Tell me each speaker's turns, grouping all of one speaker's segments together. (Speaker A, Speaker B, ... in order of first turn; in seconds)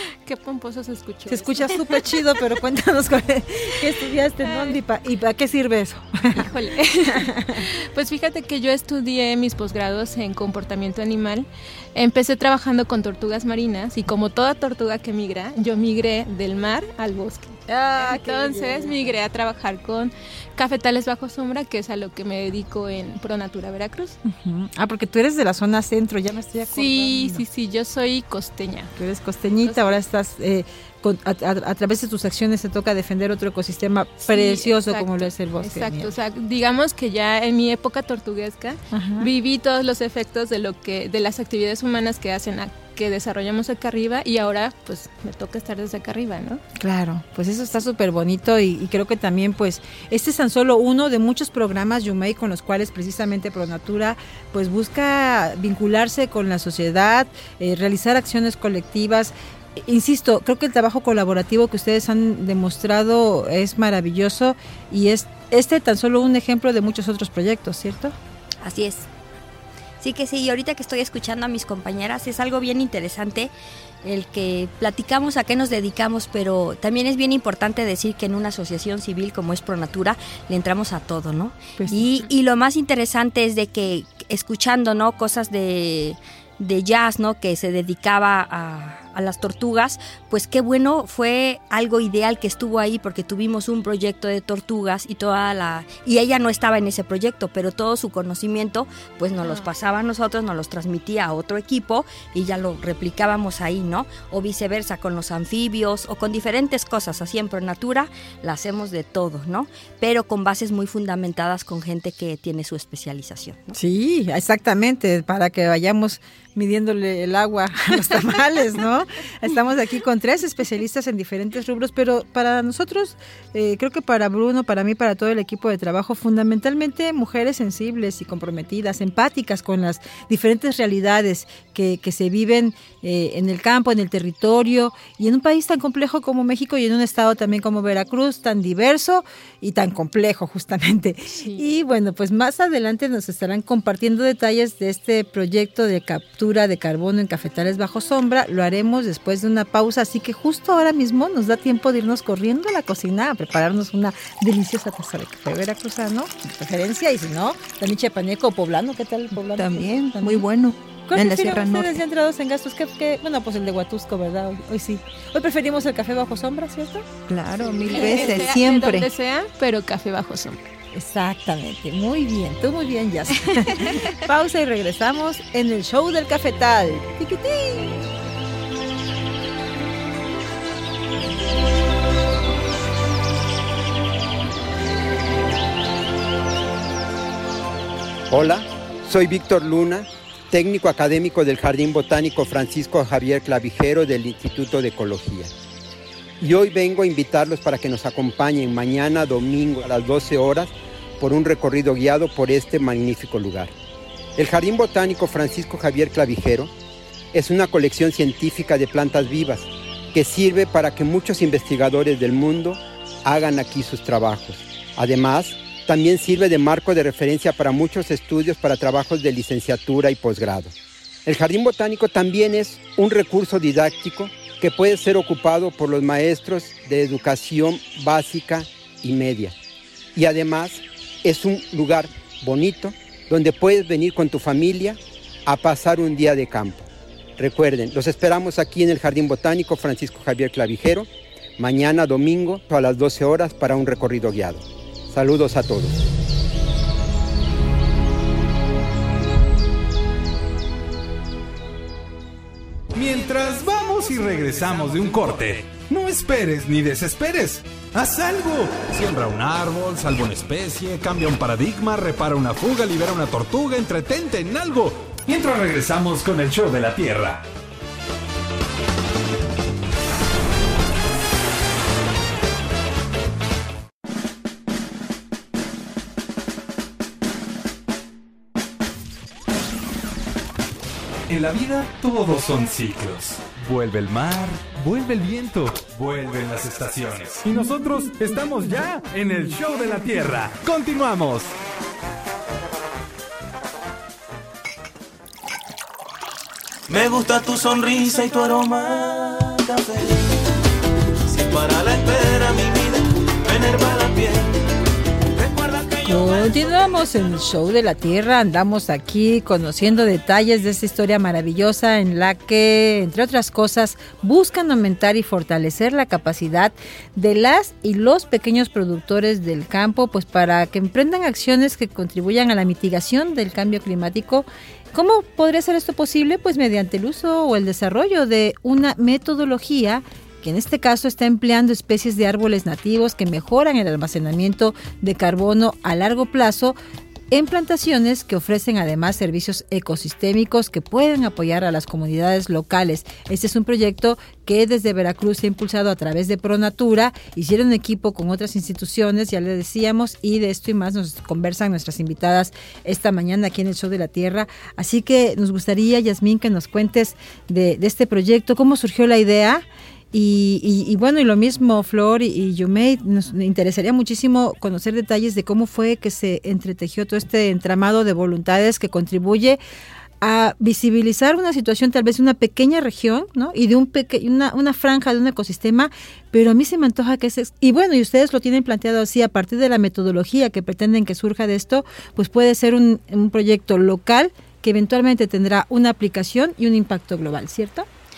Speaker A: 0.2-2.2, 4.4-4.8, 6.3-24.2, 26.7-28.9, 29.6-30.0, 34.2-46.6, 99.4-99.7, 141.3-141.6, 167.8-170.7, 173.7-174.2
Speaker B: 1.3-6.5, 7.1-7.6, 17.7-19.1, 24.2-27.4, 28.9-36.1, 38.9-39.3, 46.8-68.2, 81.8-82.2, 113.7-160.4, 161.1-167.1, 167.9-168.4, 170.9-178.1, 306.0-336.8, 337.3-369.6, 370.2-387.9
Speaker C: 68.6-69.1, 70.0-113.8
Speaker D: 159.5-162.0, 167.3-169.1
Speaker E: 188.3-195.5, 196.4-203.7, 204.4-206.7, 207.3-220.7, 221.2-229.5, 230.1-236.9, 237.4-245.9
Speaker F: 252.9-267.4, 281.3-291.5
Speaker G: 296.9-300.2, 301.3-304.5, 305.4-306.6